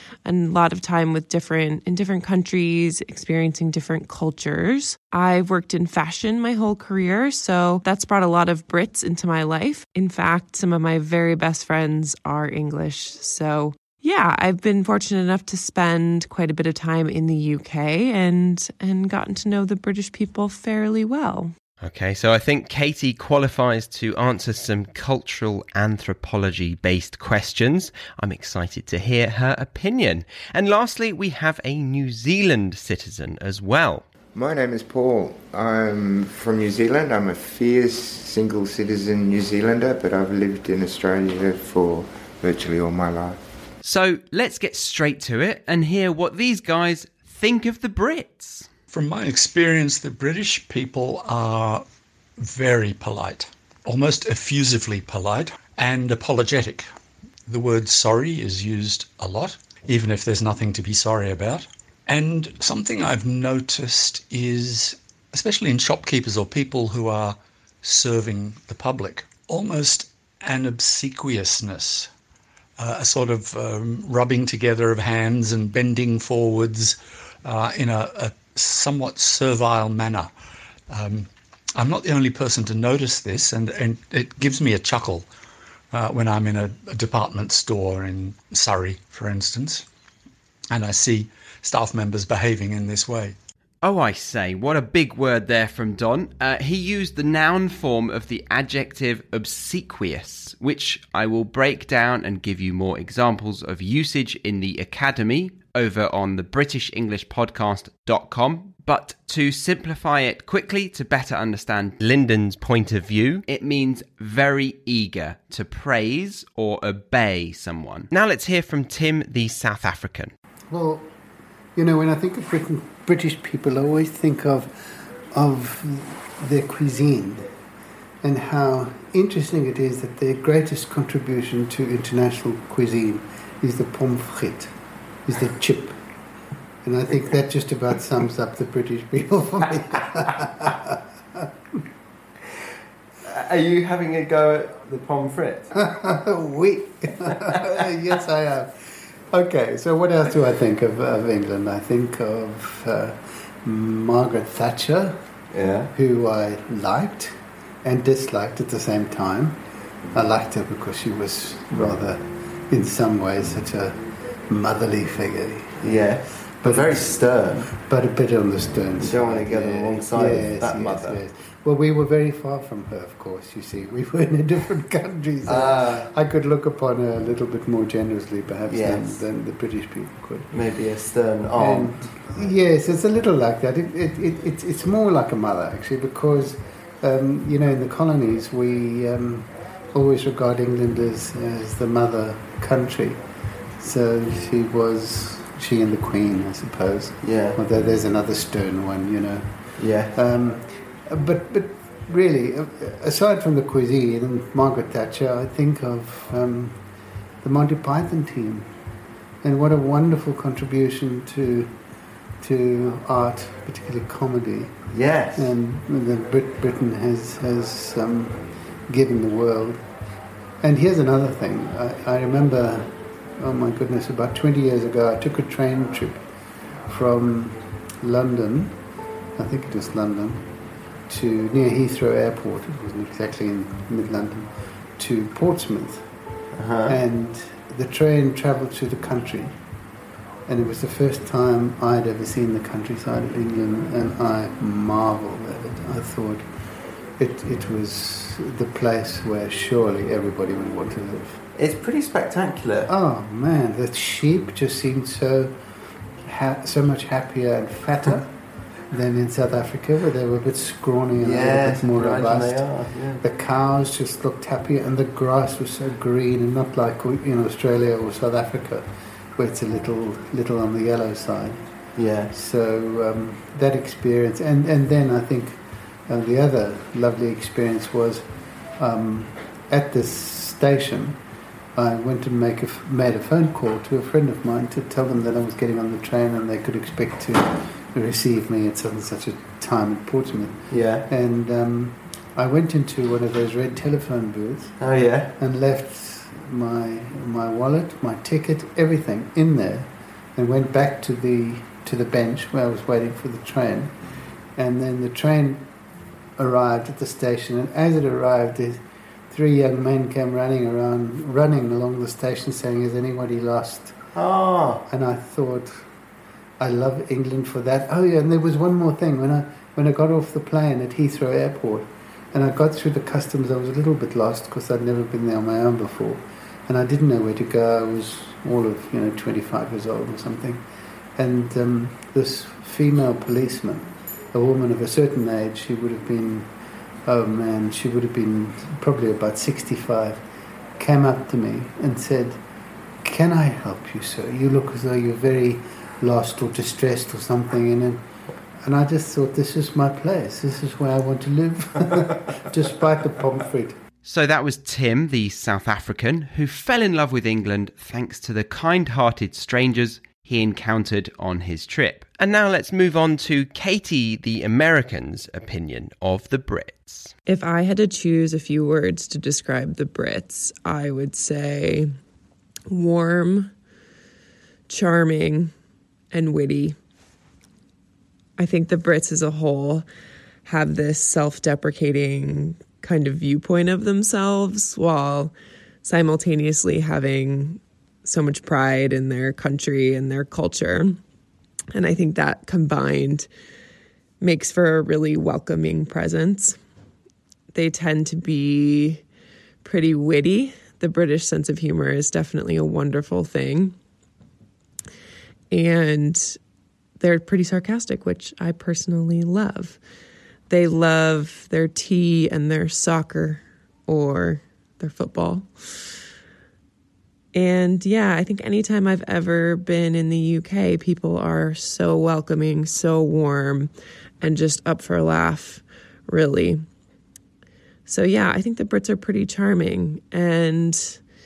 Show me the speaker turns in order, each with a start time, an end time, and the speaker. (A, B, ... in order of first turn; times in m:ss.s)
0:00.2-0:21.5 A
0:21.8-0:34.0 B
0:34.3-0:43.4 C
0:43.8-0:48.7 B
0:48.9-0:51.8 D
0:52.4-0:56.8 D
0:57.5-1:12.1 D
1:12.8-1:20.3 D
1:20.9-1:25.3 D
1:25.9-1:29.8 D
1:30.7-1:33.4 D
1:33.8-2:00.3 B
2:00.7-2:01.1 E
2:01.8-2:07.5 E
2:08.2-2:14.7 E
2:15.2-2:16.0 E
2:16.8-2:21.8 E
2:23.2-2:25.7 F
2:25.8-2:35.2 E
2:35.5-2:35.9 F
2:35.9-2:39.6 E
2:40.1-3:00.5 E
2:45.8-2:47.7 F
2:49.0-2:51.2 F
2:55.4-2:56.1 F
2:58.7-2:59.2 F
3:00.5-3:02.1 F
3:01.5-3:13.2 E
3:13.8-3:26.8 E
3:17.2-3:17.6 F
3:19.8-3:20.2 F
3:27.4-3:28.7 E
3:29.4-3:31.7 E
3:32.4-3:34.7 E
3:34.9-3:35.5 F
3:35.4-3:39.8 E
3:40.6-3:46.2 E
3:46.9-3:48.8 E
3:49.4-3:50.5 E
3:51.1-3:56.1 E
3:56.6-3:57.0 F
3:56.9-3:59.6 E
4:00.5-4:06.5 E
4:07.2-4:11.4 E
4:11.6-4:12.9 F
4:12.9-4:15.6 E
4:16.2-4:18.3 E
4:18.9-4:31.6 E
4:21.2-4:23.2 F
4:32.0-4:32.3 F
4:32.3-4:41.2 E
4:41.7-4:54.8 E
4:50.7-4:51.0 F
4:54.8-4:55.3 F
4:55.4-5:04.0 E
5:04.6-5:05.7 E
5:06.4-5:13.9 E
5:14.1-5:14.8 F
5:14.9-5:15.9 E
5:16.6-5:30.6 E
5:31.2-5:36.5 E
5:37.0-5:40.2 E
5:40.8-5:42.4 E
5:43.0-5:48.0 E
5:48.6-5:53.8 E
5:54.0-6:07.1 B
6:07.2-6:11.9 A
6:12.7-6:13.5 A
6:14.7-6:15.5 A
6:16.1-6:16.8 A
6:18.4-6:19.8 A
6:20.4-6:25.3 A
6:25.8-6:31.0 A
6:31.7-6:33.3 A
6:34.2-6:36.6 A
6:37.5-6:39.0 A
6:39.6-6:43.7 A
6:45.5-6:46.4 A
6:47.0-6:49.8 A
6:50.5-6:55.9 A
6:57.3-7:06.6 A
7:07.9-7:11.0 A